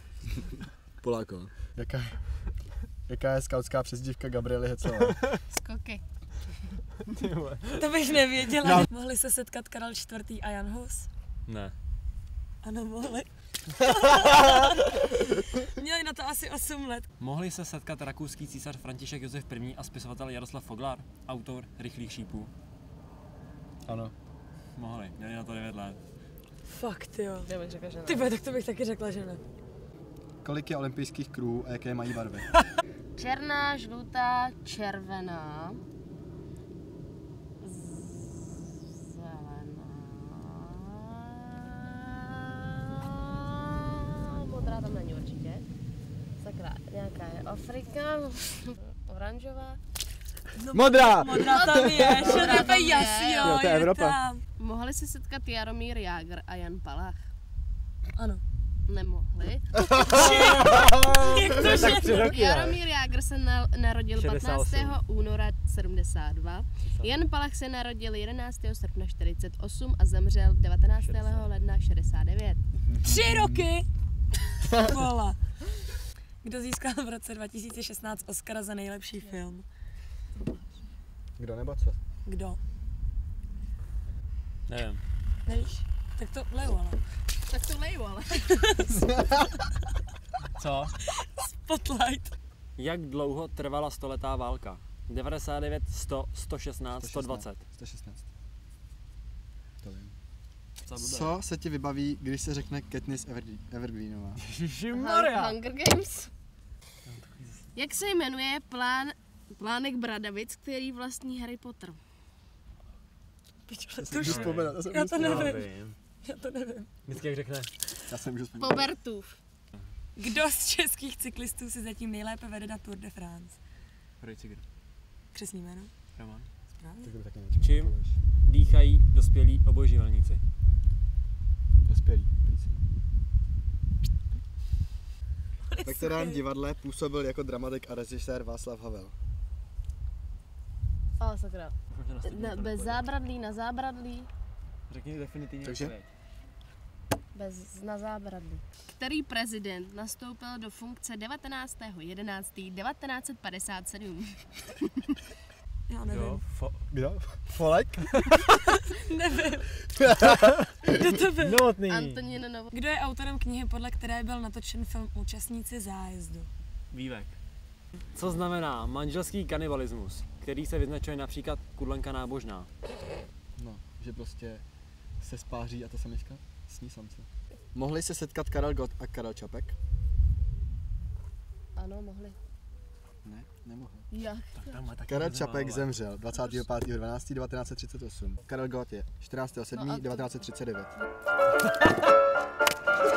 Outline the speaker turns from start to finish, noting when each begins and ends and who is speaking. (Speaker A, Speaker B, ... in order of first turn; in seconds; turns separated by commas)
Speaker A: 1.0-2.5, Speaker A: 3.0-5.2, Speaker B: 5.5-6.0, Speaker C: 7.0-7.9, Speaker D: 7.8-11.1, Speaker C: 11.5-11.7, Speaker D: 12.6-17.1, Speaker C: 17.2-22.5, Speaker A: 23.9-24.1, Speaker C: 24.8-26.0, Speaker D: 26.7-27.5, Speaker B: 27.5-28.3, Speaker D: 28.1-29.4, Speaker A: 30.4-32.5, Speaker B: 33.1-35.8, Speaker B: 37.6-45.7, Speaker B: 46.4-49.8, Speaker D: 50.5-54.4, Speaker A: 50.7-52.2, Speaker B: 51.4-53.6, Speaker A: 53.4-54.2, Speaker B: 54.6-57.2, Speaker D: 58.1-58.4, Speaker B: 58.9-60.3, Speaker D: 59.9-62.4, Speaker C: 60.1-62.8, Speaker B: 61.6-72.6, Speaker C: 64.2-65.0, Speaker C: 66.9-67.1, Speaker C: 71.0-71.6, Speaker A: 72.9-73.7, Speaker D: 73.0-73.9, Speaker D: 74.5-75.7, Speaker D: 76.4-79.6, Speaker A: 81.4-82.0, Speaker D: 82.2-82.6, Speaker C: 84.7-85.0, Speaker D: 85.5-87.0, Speaker B: 87.4-88.5, Speaker D: 88.5-89.1, Speaker C: 90.5-91.0, Speaker D: 91.0-92.3, Speaker C: 92.8-97.6, Speaker A: 97.0-98.2, Speaker A: 99.8-100.1, Speaker C: 100.8-101.3, Speaker A: 101.0-104.4, Speaker C: 104.4-105.6, Speaker B: 104.9-106.3, Speaker C: 107.0-107.7, Speaker B: 107.7-112.0, Speaker D: 113.7-115.7, Speaker A: 114.0-115.6, Speaker C: 114.2-116.0, Speaker D: 116.2-116.9, Speaker C: 117.0-117.8, Speaker A: 118.0-118.9, Speaker B: 118.6-119.4, Speaker D: 120.2-123.6, Speaker C: 124.2-124.6, Speaker D: 125.3-125.9, Speaker C: 126.1-126.5, Speaker D: 126.8-127.1, Speaker A: 127.0-128.2, Speaker C: 127.6-130.4, Speaker A: 131.8-132.8, Speaker D: 135.7-136.4, Speaker A: 135.8-139.1, Speaker B: 141.2-144.3, Speaker C: 141.9-143.0, Speaker C: 144.9-146.1, Speaker A: 145.6-145.9, Speaker B: 147.3-154.8, Speaker D: 155.9-156.4, Speaker C: 156.1-156.9, Speaker A: 156.9-158.8, Speaker D: 158.7-159.8, Speaker A: 159.9-160.4, Speaker D: 160.8-161.6, Speaker C: 161.4-162.2, Speaker B: 161.9-162.7, Speaker D: 162.7-166.5, Speaker C: 166.9-167.3, Speaker C: 168.1-172.7, Speaker A: 173.6-174.6, Speaker A: 175.2-179.8, Speaker B: 181.8-182.4, Speaker A: 183.2-184.1, Speaker B: 184.1-184.8, Speaker C: 184.6-186.0, Speaker A: 185.1-190.9, Speaker B: 189.7-190.4